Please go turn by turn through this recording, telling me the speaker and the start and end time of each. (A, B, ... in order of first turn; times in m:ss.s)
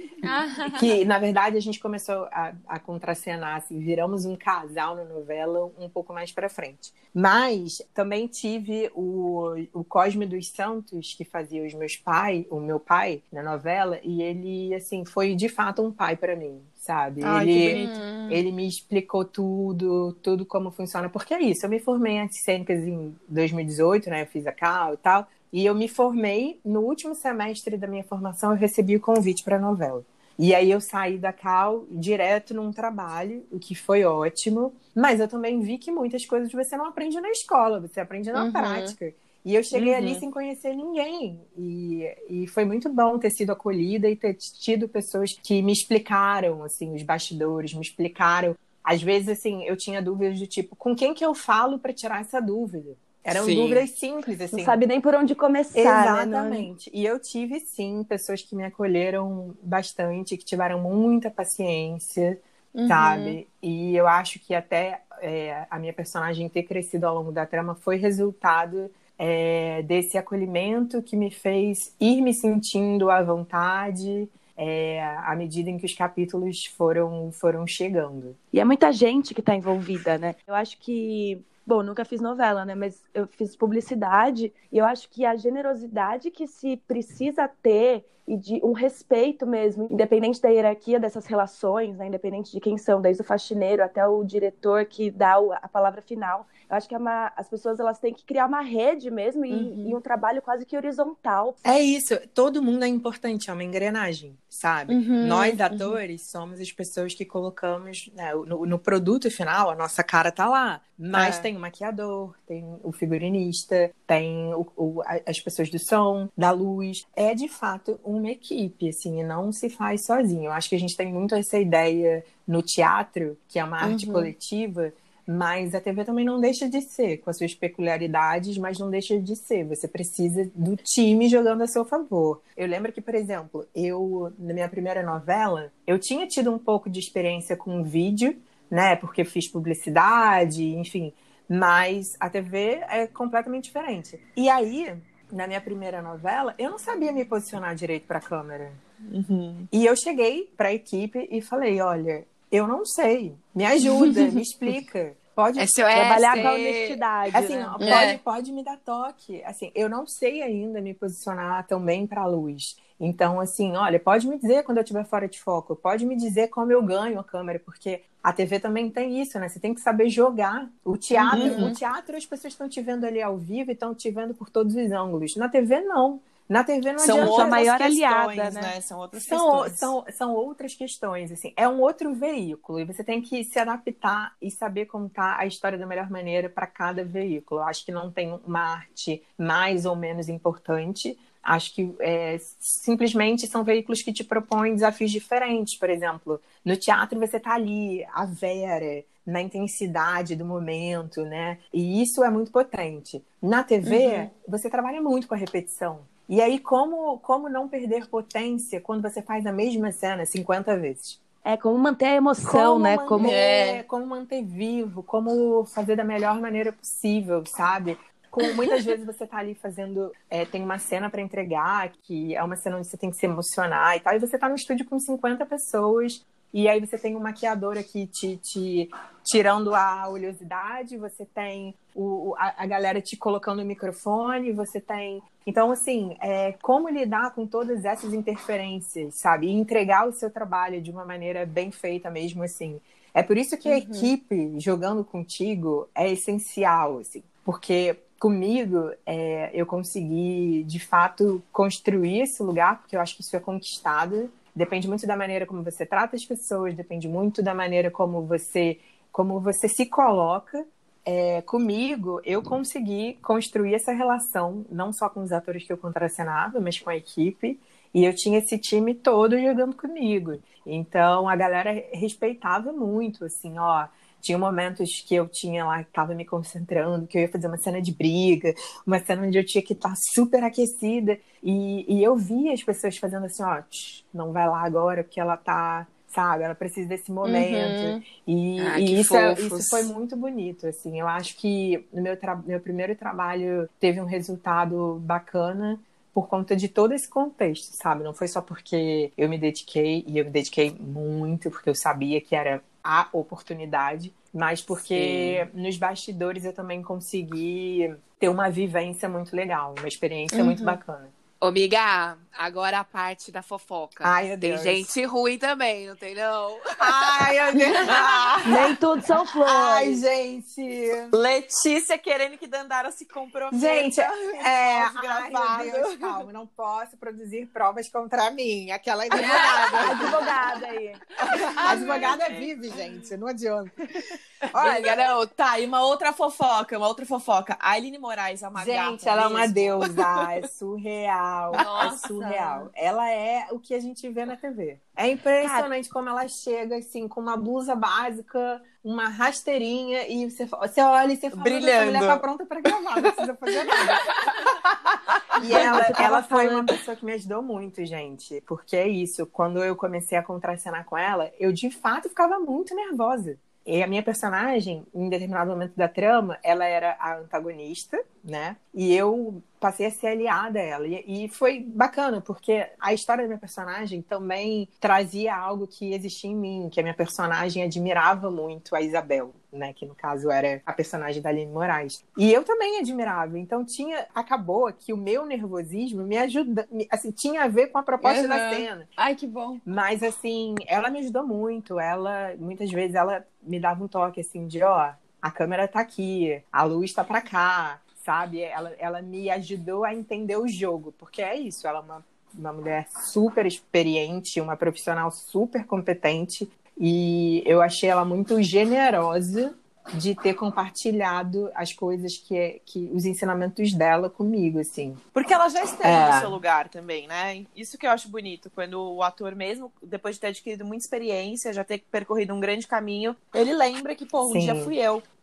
0:00.2-0:00.9 A
0:00.6-0:54.8 B
0:17.2-0:17.9 C
0:17.7-0:18.4 A
0:38.3-0:39.0 A
0:39.8-0:40.2 A
0:53.3-0:53.8 D
0:54.5-0:56.7 E
0:55.7-1:18.4 B
1:02.7-1:03.4 A
1:18.5-1:41.6 E
1:39.5-1:40.0 A
1:41.6-2:28.8 B
1:44.9-1:46.0 A
1:51.2-1:51.4 C
2:03.8-2:04.3 A
2:29.0-2:29.7 C
2:29.7-2:35.7 B
2:33.8-2:34.4 A
2:35.6-2:37.0 D
2:35.9-2:38.1 E
2:37.3-2:57.6 B
2:37.8-2:38.2 A
2:51.2-2:51.8 A
2:51.3-2:51.7 C
2:57.0-2:59.9 C
2:57.0-2:58.7 E
2:59.1-3:31.2 B
3:23.8-3:24.3 A
3:31.4-3:33.4 E
3:32.4-5:11.1 B
3:33.2-3:33.8 A
4:03.6-4:04.1 A
4:47.2-4:48.0 A
4:48.6-4:49.9 D
5:04.9-5:05.5 D
5:10.3-5:10.8 A
5:11.4-5:18.0 D
5:14.0-5:14.9 B
5:16.8-5:18.7 B
5:18.4-5:20.0 E
5:19.4-5:21.2 B
5:21.1-5:26.2 C
5:23.5-5:30.3 B
5:29.1-5:30.2 A
5:29.7-5:31.0 E
5:31.2-5:32.5 C
5:31.4-5:32.2 A
5:31.6-5:33.8 B
5:34.5-5:40.2 C
5:34.6-5:35.2 D
5:38.6-5:54.2 B
5:41.5-5:42.7 A
5:41.6-5:41.9 C
5:45.4-5:45.7 E
5:51.3-5:52.2 C
5:53.0-5:56.8 C
5:55.4-6:28.9 B
5:55.5-5:56.0 E
6:28.0-6:29.6 A
6:29.7-6:55.0 B
6:55.1-7:05.0 C
6:55.8-6:56.4 B
7:04.2-7:04.7 B